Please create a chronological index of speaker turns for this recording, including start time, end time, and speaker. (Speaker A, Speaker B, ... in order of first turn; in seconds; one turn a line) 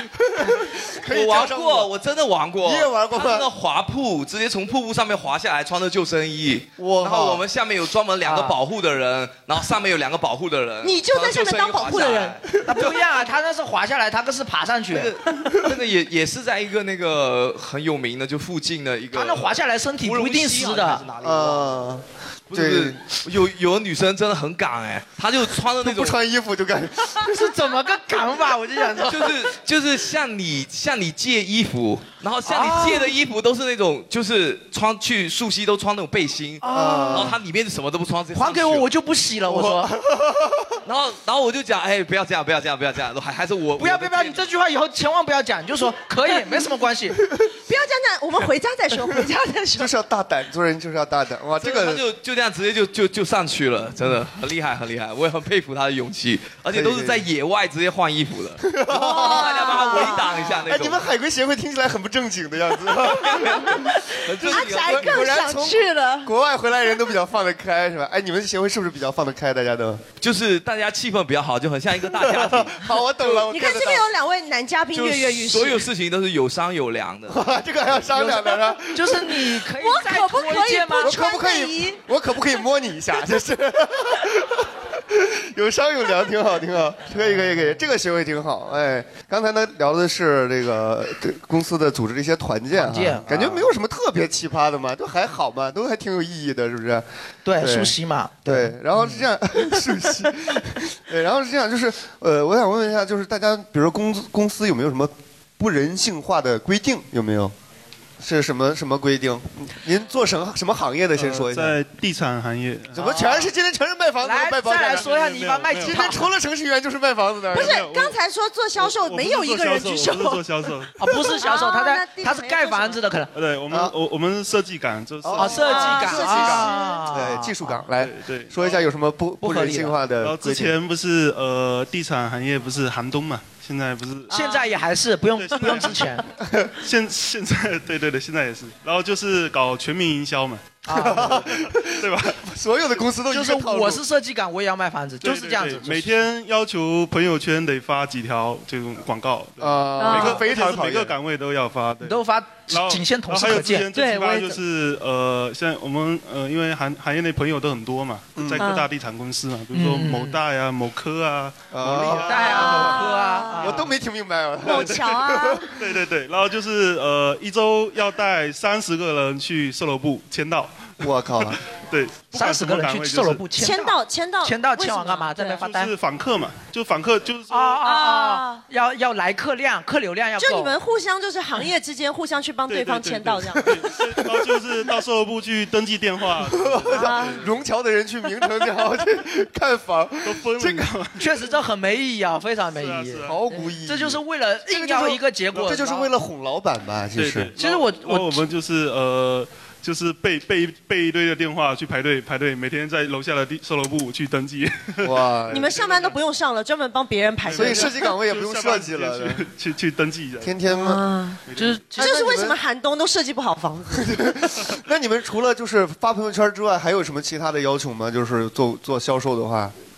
Speaker A: 0.3-1.9
Speaker B: 1.1-13.3
Speaker A: 2.6-3.5
Speaker A: 6.8-7.4
Speaker C: 8.2-8.6
Speaker D: 10.8-12.4
Speaker C: 12.6-15.1
Speaker B: 14.9-21.8
Speaker C: 19.1-21.1
Speaker A: 21.2-23.0
Speaker B: 22.5-26.2
Speaker A: 25.8-27.5
Speaker C: 27.2-29.5
Speaker B: 29.0-38.9
Speaker C: 32.5-33.1
Speaker C: 36.6-37.4
Speaker A: 36.6-37.4
Speaker C: 38.3-39.9
Speaker A: 39.5-40.8
Speaker B: 40.9-44.5
Speaker C: 43.8-47.2
Speaker D: 47.5-49.9
Speaker A: 49.8-52.0
Speaker B: 51.6-61.1
Speaker A: 56.7-57.3
Speaker A: 58.6-70.0
Speaker D: 58.9-60.6
Speaker B: 63.2-65.4
Speaker D: 63.4-66.3
Speaker B: 70.2-73.3
Speaker A: 72.1-74.1
Speaker D: 73.3-75.9
Speaker B: 74.9-77.4
Speaker A: 77.3-79.6
Speaker C: 78.1-81.2
Speaker D: 79.8-82.0
Speaker A: 81.0-97.0
Speaker C: 87.1-87.8
Speaker C: 92.7-93.6
Speaker C: 97.5-99.2
Speaker A: 97.6-107.5
Speaker A: 108.2-111.8
Speaker E: 111.1-113.1
Speaker A: 112.9-115.2
Speaker C: 113.0-113.5
Speaker C: 114.2-116.2
Speaker E: 114.8-116.1
Speaker A: 115.7-117.9
Speaker E: 117.5-118.2
Speaker D: 117.5-123.0
Speaker E: 118.8-121.0
Speaker C: 121.0-123.3
Speaker E: 123.3-125.9
Speaker A: 125.2-130.8
Speaker C: 125.4-127.8
Speaker D: 125.4-127.1
Speaker E: 127.9-128.9
Speaker C: 129.4-130.0
Speaker E: 130.2-134.7
Speaker C: 134.3-136.3
Speaker D: 134.3-134.6
Speaker E: 135.3-136.2
Speaker A: 136.4-136.7
Speaker E: 136.8-142.4
Speaker C: 140.9-141.3
Speaker A: 140.9-144.0
Speaker C: 143.3-146.1
Speaker E: 145.2-163.0
Speaker A: 149.6-151.1
Speaker C: 150.0-150.4
Speaker D: 150.0-150.4
Speaker C: 152.0-153.9
Speaker D: 153.9-154.6
Speaker A: 158.4-158.7
Speaker D: 158.6-158.9
Speaker C: 159.7-160.4
Speaker A: 161.7-163.1
Speaker C: 162.1-163.9
Speaker D: 162.4-163.8
Speaker A: 163.6-165.7
Speaker D: 164.6-165.8
Speaker E: 165.8-173.5
Speaker A: 171.0-171.6
Speaker C: 172.3-175.9
Speaker D: 173.6-175.7
Speaker E: 175.6-177.8
Speaker C: 177.5-180.7
Speaker D: 177.8-178.6
Speaker D: 180.4-184.5
Speaker E: 182.7-187.5
Speaker A: 186.5-190.9
Speaker D: 186.9-187.5
Speaker E: 190.2-191.2
Speaker C: 191.2-196.1
Speaker E: 192.8-193.4
Speaker A: 193.3-197.5
Speaker E: 197.2-206.2
Speaker C: 197.6-198.4
Speaker A: 205.0-205.8
Speaker D: 205.5-208.1
Speaker E: 207.4-210.6
Speaker A: 207.5-209.4
Speaker A: 210.4-211.0
Speaker D: 210.7-214.3
Speaker E: 211.5-211.9
Speaker C: 211.6-211.8
Speaker A: 211.9-212.6
Speaker A: 213.9-219.7